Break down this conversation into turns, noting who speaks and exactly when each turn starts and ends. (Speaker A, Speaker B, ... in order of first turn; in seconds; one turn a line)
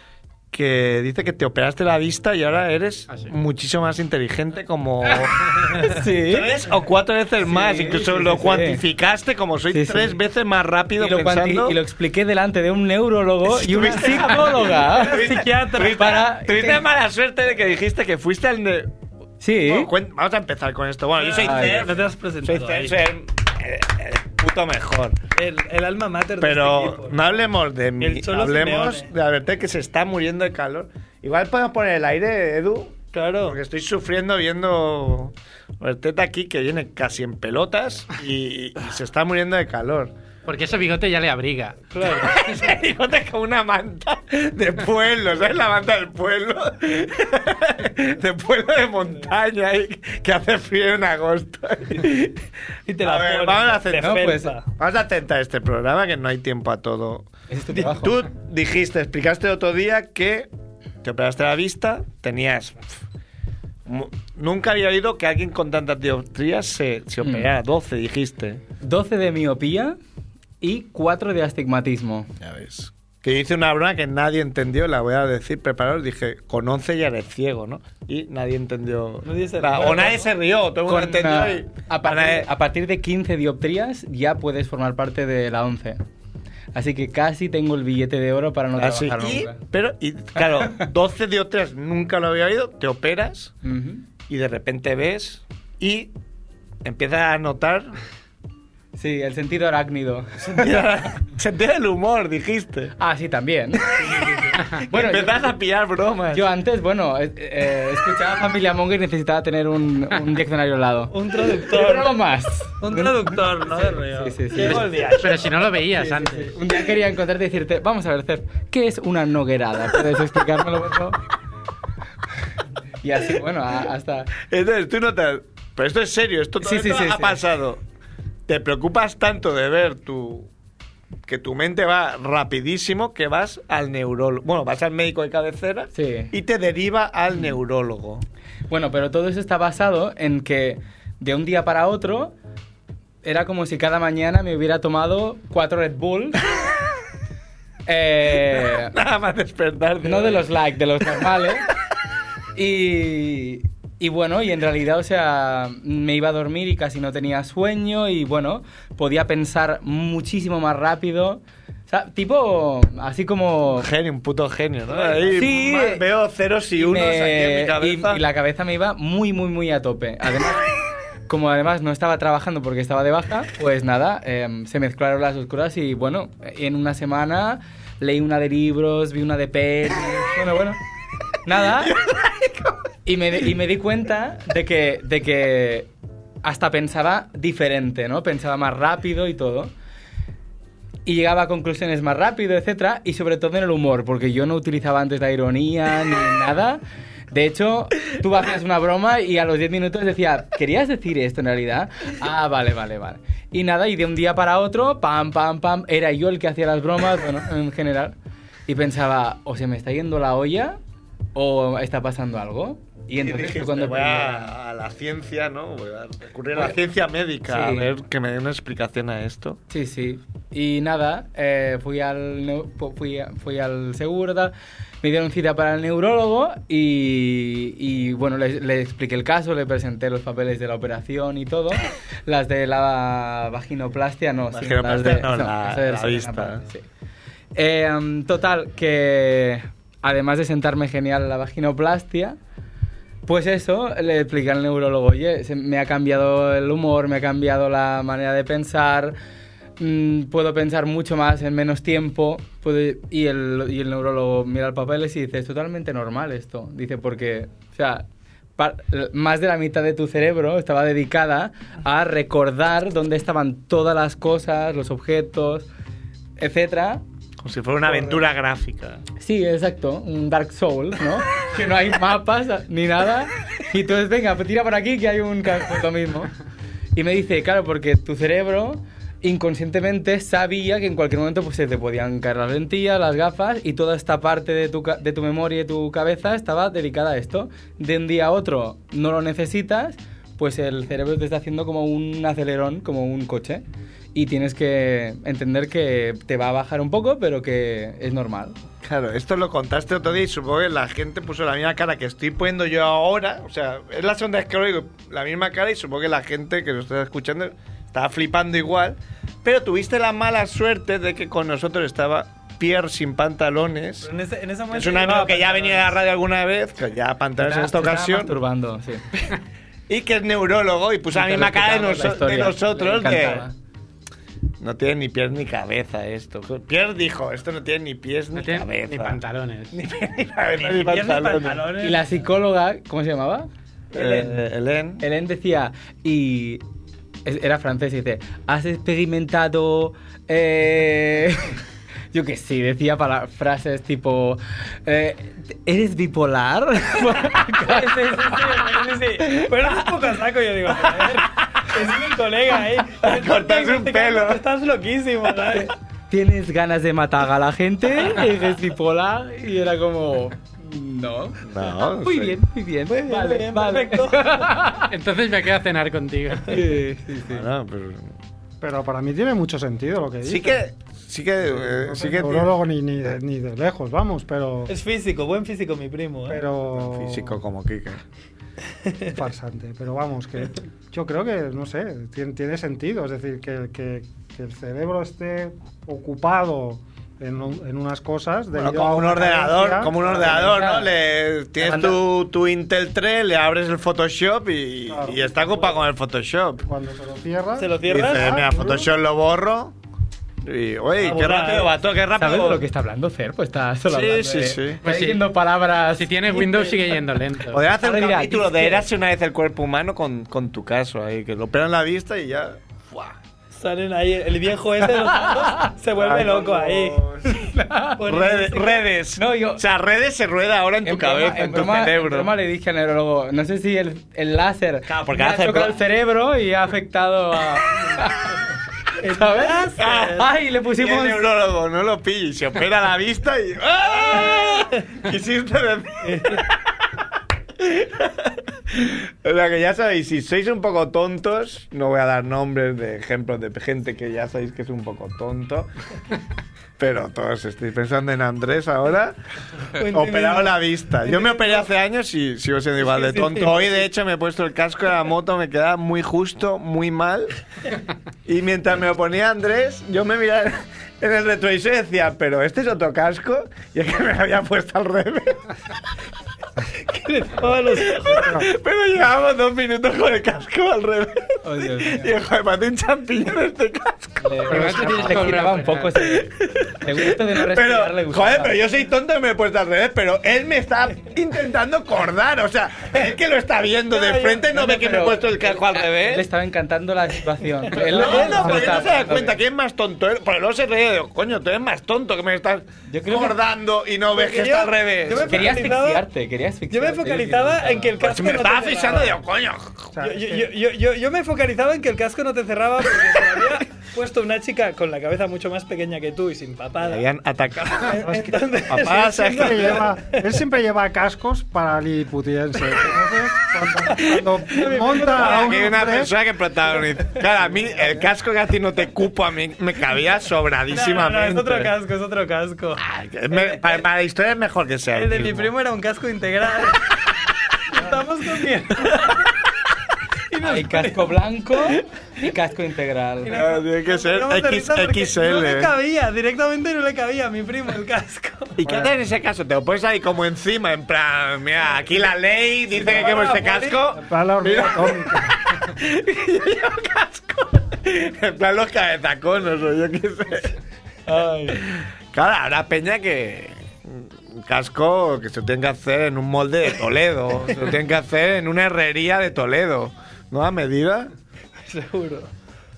Speaker A: 0.5-11.8
Speaker B: 5.7-6.5
Speaker B: 7.4-8.8
Speaker B: 9.7-10.2
Speaker B: 11.0-16.8
Speaker A: 13.5-18.9
Speaker C: 13.7-16.3
Speaker B: 19.4-19.9
Speaker A: 19.6-25.2
Speaker C: 21.2-23.0
Speaker B: 21.4-21.9
Speaker C: 25.4-27.2
Speaker A: 26.4-40.1
Speaker C: 28.0-29.1
Speaker C: 33.1-33.6
Speaker D: 40.4-41.9
Speaker C: 41.9-42.4
Speaker A: 42.0-52.5
Speaker C: 52.9-54.7
Speaker A: 53.0-57.3
Speaker B: 54.0-54.5
Speaker B: 57.5-58.1
Speaker A: 57.9-60.5
Speaker A: 61.0-63.0
Speaker A: 63.9-68.6
Speaker B: 67.2-67.5
Speaker B: 68.8-70.0
Speaker B: 70.6-72.3
Speaker A: 72.4-82.5
Speaker C: 79.2-80.3
Speaker B: 80.9-86.0
Speaker B: 86.8-89.6
Speaker A: 88.8-93.5
Speaker B: 93.6-94.0
Speaker A: 94.3-96.1
Speaker A: 96.8-98.0
Speaker B: 99.0-100.9
Speaker A: 100.4-102.9
Speaker B: 103.0-103.9
Speaker A: 104.0-106.4
Speaker C: 104.1-104.5
Speaker B: 104.8-105.5
Speaker B: 106.3-113.3
Speaker C: 111.1-112.1
Speaker C: 112.8-116.5
Speaker B: 114.1-114.9
Speaker D: 114.6-116.5
Speaker B: 116.5-121.2
Speaker B: 123.0-124.3
Speaker A: 124.4-127.8
Speaker B: 126.6-127.4
Speaker A: 128.5-130.5
Speaker A: 131.3-138.2
Speaker B: 135.9-136.3
Speaker B: 138.7-142.3
Speaker B: 143.2-146.4
Speaker B: 147.9-148.9
Speaker A: 148.5-150.5
Speaker B: 150.0-151.7
Speaker B: 152.6-163.9
Speaker A: 163.8-168.2
Speaker C: 164.9-165.5
Speaker B: 165.3-166.0
Speaker B: 166.8-170.7
Speaker B: 171.3-180.8
Speaker B: 181.4-182.0
Speaker A: 181.8-182.8
Speaker B: 183.1-185.9
Speaker B: 186.4-189.7
Speaker B: 191.1-208.1
Speaker B: 208.7-210.8
Speaker B: 211.3-214.5
Speaker A: 213.2-219.6
Speaker B: 217.5-217.9
Speaker B: 219.7-236.8
Speaker A: 234.5-236.6
Speaker B: 237.6-242.4
Speaker B: 243.2-249.1
Speaker B: 249.8-258.0
Speaker B: 258.6-265.7
Speaker B: 266.4-267.0
Speaker A: 267.4-269.0
Speaker B: 269.2-276.3
Speaker B: 277.0-293.6
Speaker B: 294.1-298.6
Speaker A: 298.8-314.1
Speaker C: 314.0-315.9
Speaker A: 314.7-318.3
Speaker B: 317.4-319.0
Speaker A: 319.9-323.5
Speaker B: 321.1-323.5
Speaker A: 324.6-331.6
Speaker D: 328.3-329.8
Speaker C: 330.6-332.0
Speaker B: 331.8-333.5
Speaker A: 333.9-335.0
Speaker C: 333.9-334.3
Speaker B: 335.0-336.6
Speaker B: 337.2-341.6
Speaker B: 342.1-348.8
Speaker C: 347.6-355.7
Speaker A: 353.0-354.4
Speaker B: 355.5-361.4
Speaker A: 361.4-362.4
Speaker B: 362.0-364.9
Speaker C: 362.9-364.4
Speaker D: 364.9-366.6
Speaker B: 366.5-367.5
Speaker A: 367.3-368.1
Speaker E: 368.6-370.6
Speaker A: 370.2-372.5
Speaker E: 371.5-374.7
Speaker C: 374.7-376.4
Speaker E: 376.3-377.4
Speaker A: 376.7-378.0
Speaker C: 378.9-379.1
Speaker E: 379.1-390.2
Speaker A: 388.6-396.6
Speaker B: 390.2-390.9
Speaker B: 391.6-392.0
Speaker E: 394.9-395.7
Speaker E: 396.6-398.9
Speaker C: 397.6-398.5
Speaker A: 397.9-399.8
Speaker A: 400.4-402.6
Speaker C: 401.0-401.7
Speaker B: 402.1-406.8
Speaker A: 403.9-404.8
Speaker D: 404.8-405.2
Speaker D: 405.9-407.6
Speaker A: 407.5-413.1
Speaker B: 407.8-408.9
Speaker C: 413.5-417.1
Speaker B: 415.2-415.7
Speaker A: 415.9-417.5
Speaker B: 417.3-418.0
Speaker C: 418.0-418.9
Speaker A: 418.0-422.3
Speaker B: 419.2-419.6
Speaker B: 420.8-428.4
Speaker A: 424.9-425.8
Speaker C: 429.0-430.2
Speaker B: 429.0-431.2
Speaker A: 429.8-430.2
Speaker A: 430.8-436.6
Speaker C: 434.3-434.8
Speaker C: 436.0-436.4
Speaker A: 437.6-445.7
Speaker A: 446.8-449.1
Speaker C: 449.8-451.7
Speaker A: 449.9-457.3
Speaker C: 452.8-453.7
Speaker A: 458.2-465.5
Speaker C: 466.9-468.4
Speaker A: 467.5-476.0
Speaker B: 471.4-472.1
Speaker B: 474.2-478.6
Speaker D: 474.5-476.1
Speaker A: 476.6-486.2
Speaker C: 483.9-484.6
Speaker B: 484.5-489.4
Speaker A: 487.7-495.5
Speaker C: 487.7-489.0
Speaker B: 492.9-493.4
Speaker C: 494.1-496.0
Speaker B: 495.3-497.9
Speaker C: 496.7-499.2
Speaker A: 498.0-499.9
Speaker E: 499.9-500.5
Speaker C: 500.0-507.0
Speaker A: 506.8-508.0
Speaker C: 507.6-510.2
Speaker E: 508.0-516.1
Speaker A: 508.7-509.9
Speaker C: 514.0-515.9
Speaker A: 514.6-521.7
Speaker C: 516.8-518.0
Speaker C: 520.7-522.8
Speaker A: 522.8-525.5
Speaker C: 523.3-523.6
Speaker C: 524.9-527.0
Speaker C: 527.7-529.4
Speaker C: 530.3-531.7
Speaker B: 530.4-533.4
Speaker C: 533.2-538.7
Speaker A: 533.3-535.7
Speaker A: 538.6-550.6
Speaker C: 542.7-544.0
Speaker E: 544.0-545.4
Speaker C: 551.1-551.6
Speaker A: 551.5-561.1
Speaker C: 561.6-562.3